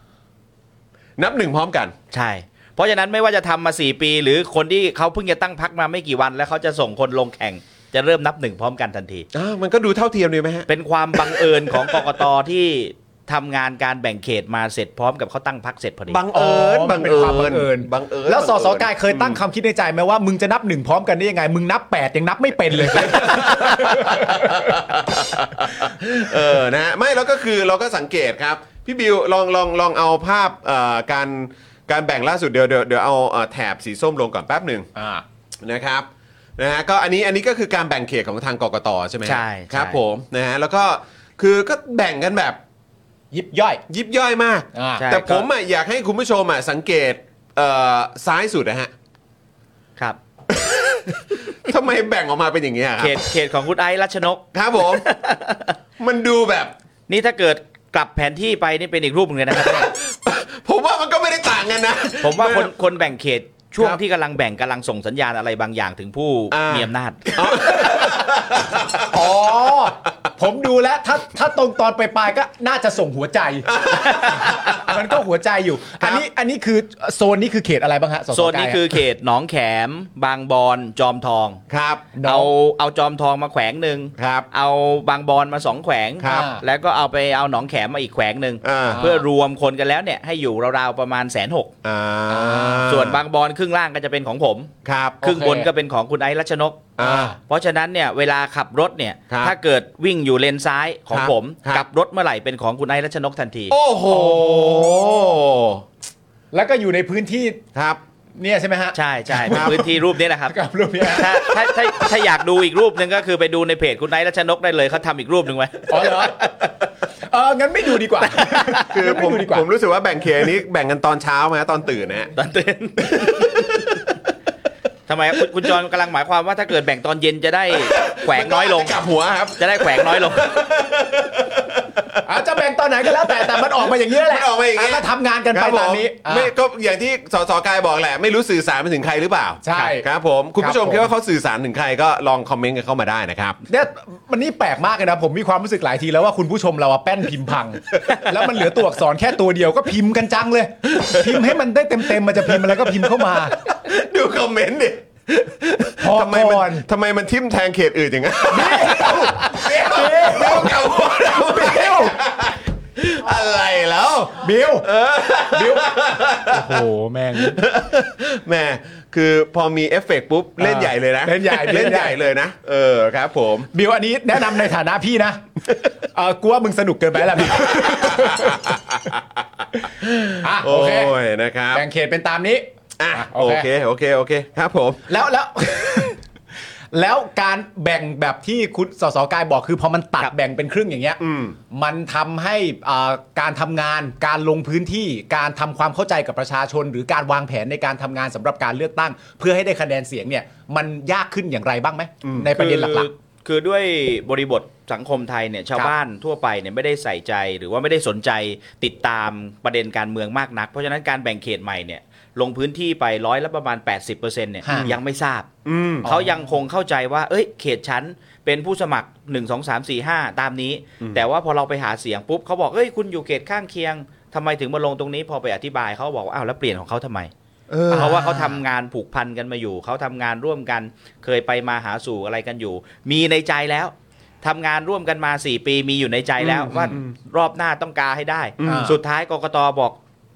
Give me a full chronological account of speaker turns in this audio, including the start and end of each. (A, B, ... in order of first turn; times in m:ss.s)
0:01.2-0:01.9 A
0:02.1-0:09.3 B
0:09.3-0:12.2 A
0:10.7-0:16.2 B
0:16.1-0:19.4 A
0:16.3-0:24.7 C
0:22.9-0:34.9 A
0:35.0-0:35.2 C
0:35.6-0:42.6 A
0:39.2-0:40.0 B
0:43.3-0:43.8 C
0:43.9-0:48.9 A
0:44.7-0:45.0 C
0:45.0-0:45.5 B
0:50.5-0:53.2 A
0:53.0-0:55.8 B
0:54.5-0:55.0 A
0:56.0-0:56.7 A
0:57.1-0:59.9 B
0:59.5-1:02.7 A
1:02.2-1:07.4 B
1:06.5-1:09.1 A
1:09.1-1:19.0 C
1:13.7-1:15.0 A
1:14.0-1:14.5 B
1:18.3-1:21.6 B
1:21.7-1:22.1 A
1:22.1-1:22.5 C
1:22.2-1:31.7 B
1:24.2-1:24.5 A
1:26.2-1:26.5 A
1:26.2-1:26.6 C
1:28.6-1:29.1 A
1:28.8-1:29.2 C
1:31.8-1:33.2 A
1:32.3-1:32.8 C
1:32.8-1:34.7 B
1:34.8-1:35.2 A
1:35.2-1:35.7 C
1:35.2-1:43.7 B
1:37.0-1:37.3 A
1:37.0-1:37.4 C
1:39.3-1:39.6 A
1:41.1-1:41.8 A
1:43.7-1:45.8 A
1:44.1-1:45.0 C
1:46.5-1:47.6 C
1:47.7-1:48.0 A
1:48.4-1:52.2 C
1:48.9-1:50.6 B
1:49.5-1:49.8 A
1:51.1-1:56.8 B
1:55.9-1:56.7 C
1:57.3-1:59.7 C
1:58.1-1:58.9 B
1:58.9-2:02.3 A
2:02.3-2:04.0 B
2:03.1-2:04.1 A
2:05.1-2:09.0 B
2:07.7-2:12.2 A
2:09.6-2:10.6 B
2:12.2-2:16.5 C
2:13.1-2:23.6 A
2:19.6-2:20.0 C
2:20.6-2:21.1 C
2:23.7-2:33.5 C
2:30.9-2:31.6 A
2:32.1-2:46.8 A
2:36.0-2:36.8 C
2:38.5-2:42.1 C
2:44.3-2:44.9 C
2:45.5-2:47.6 C
2:47.4-2:53.7 A
2:50.6-2:52.2 C
2:53.7-2:55.4 C
2:56.1-2:58.8 C
2:57.5-2:59.2 A
2:59.7-3:01.8 A
3:00.4-3:01.1 C
3:01.7-3:03.7 C
3:03.0-3:05.1 A
3:05.1-3:06.2 C
3:06.9-3:11.2 C
3:11.2-3:11.6 A
3:11.7-3:23.1 C
3:22.2-3:22.5 A
3:22.5-3:35.5 B
3:34.6-3:34.9 C
3:34.7-3:35.0 A
3:35.6-3:36.1 A
3:36.0-3:36.4 C
3:36.0-3:47.3 B
3:47.7-3:48.3 A
3:47.9-3:48.6 C
3:47.9-4:00.0 B
3:56.4-3:57.1 A
3:58.6-3:58.9 A
3:58.6-3:59.0 C